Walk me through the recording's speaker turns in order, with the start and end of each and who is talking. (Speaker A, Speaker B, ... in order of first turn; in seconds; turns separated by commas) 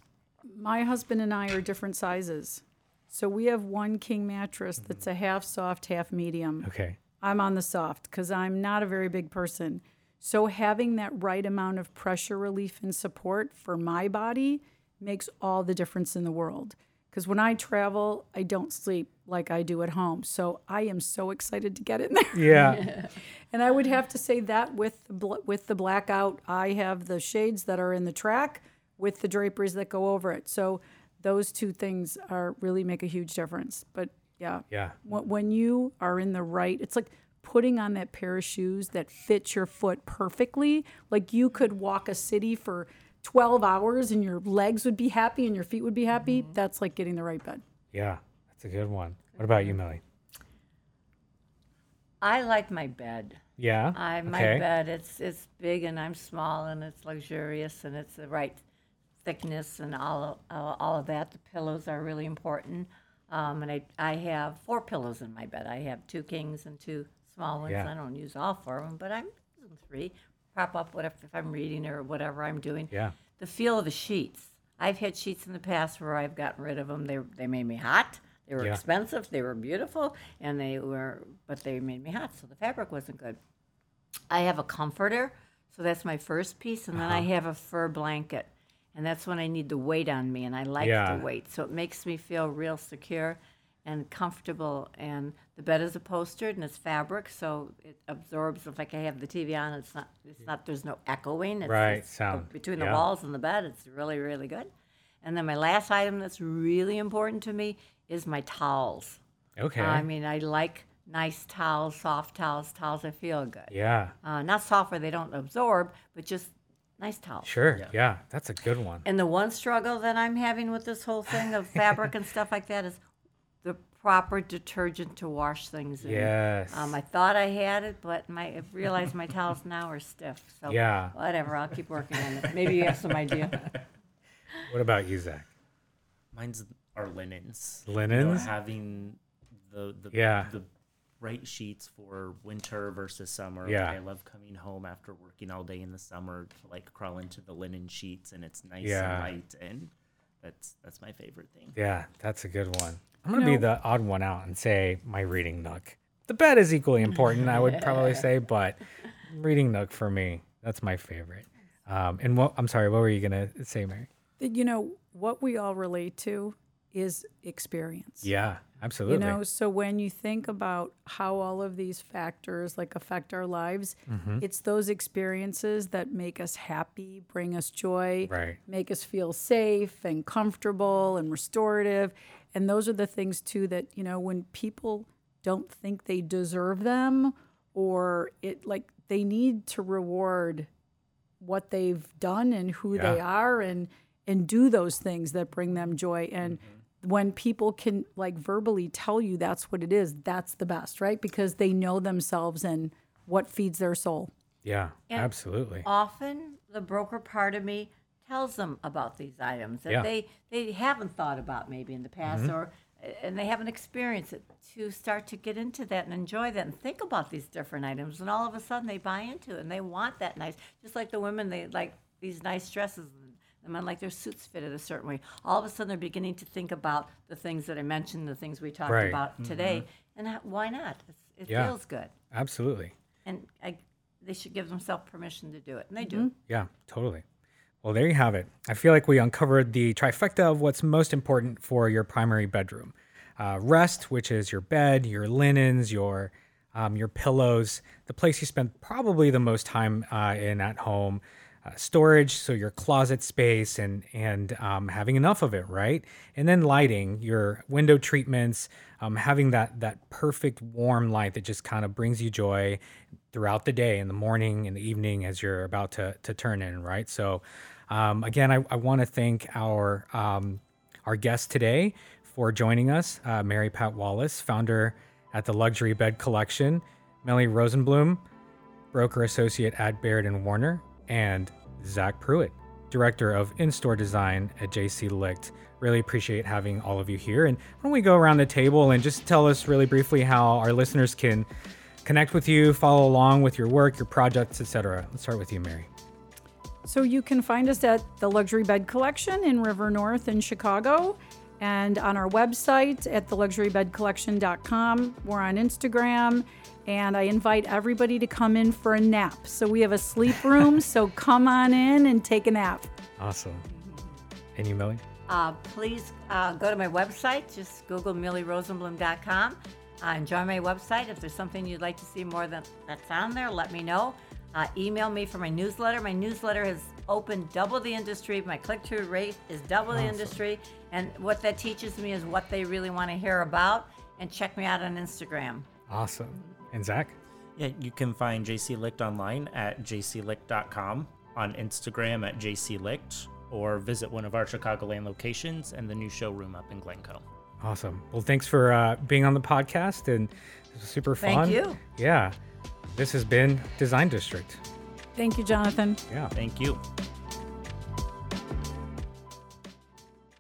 Speaker A: 0.4-6.7, Speaker B: 6.6-7.0, Speaker A: 7.2-22.9, Speaker B: 22.4-22.9, Speaker A: 23.5-47.6, Speaker B: 34.7-35.0, Speaker B: 47.9-50.0, Speaker C: 52.2-53.4, Speaker B: 53.6-54.6, Speaker C: 54.0-58.6, Speaker C: 59.2-83.4, Speaker C: 84.3-104.7, Speaker B: 86.9-87.3, Speaker B: 90.8-91.2, Speaker B: 101.6-103.0, Speaker C: 105.2-109.2, Speaker B: 109.6-110.0, Speaker C: 109.8-113.7, Speaker B: 113.7-114.1, Speaker C: 114.2-117.5, Speaker B: 117.4-119.0, Speaker C: 119.0-123.0, Speaker C: 123.6-133.7, Speaker B: 126.0-127.0, Speaker B: 130.7-131.1, Speaker D: 132.9-133.8, Speaker B: 134.7-135.5, Speaker D: 136.3-140.7, Speaker B: 137.9-138.5, Speaker B: 140.1-140.5, Speaker D: 141.2-151.7, Speaker B: 143.6-143.9, Speaker B: 148.8-149.3, Speaker B: 151.7-164.1, Speaker A: 153.3-153.7, Speaker A: 164.4-168.3, Speaker B: 168.2-169.4, Speaker A: 169.1-190.7, Speaker B: 174.1-174.4, Speaker B: 178.3-178.6, Speaker A: 191.4-204.3, Speaker B: 192.9-193.2, Speaker B: 204.6-205.9, Speaker C: 205.8-232.1, Speaker B: 228.9-229.2, Speaker D: 229.4-229.8, Speaker B: 231.5-231.7, Speaker B: 232.3-232.9, Speaker C: 233.2-236.3, Speaker A: 236.0-236.3, Speaker B: 236.5-237.2, Speaker B: 237.8-262.8, Speaker B: 263.3-278.2, Speaker B: 278.9-291.5, Speaker B: 292.1-295.9, Speaker A: 296.9-312.9, Speaker B: 313.2-313.6, Speaker C: 313.8-314.0, Speaker B: 314.6-315.0, Speaker C: 315.3-335.7, Speaker B: 329.9-330.4, Speaker B: 335.9-337.2, Speaker D: 337.6-347.2, Speaker B: 347.6-352.4, Speaker C: 351.2-351.8, Speaker B: 352.9-354.6, Speaker A: 355.2-356.0, Speaker B: 356.1-356.3, Speaker D: 356.3-356.8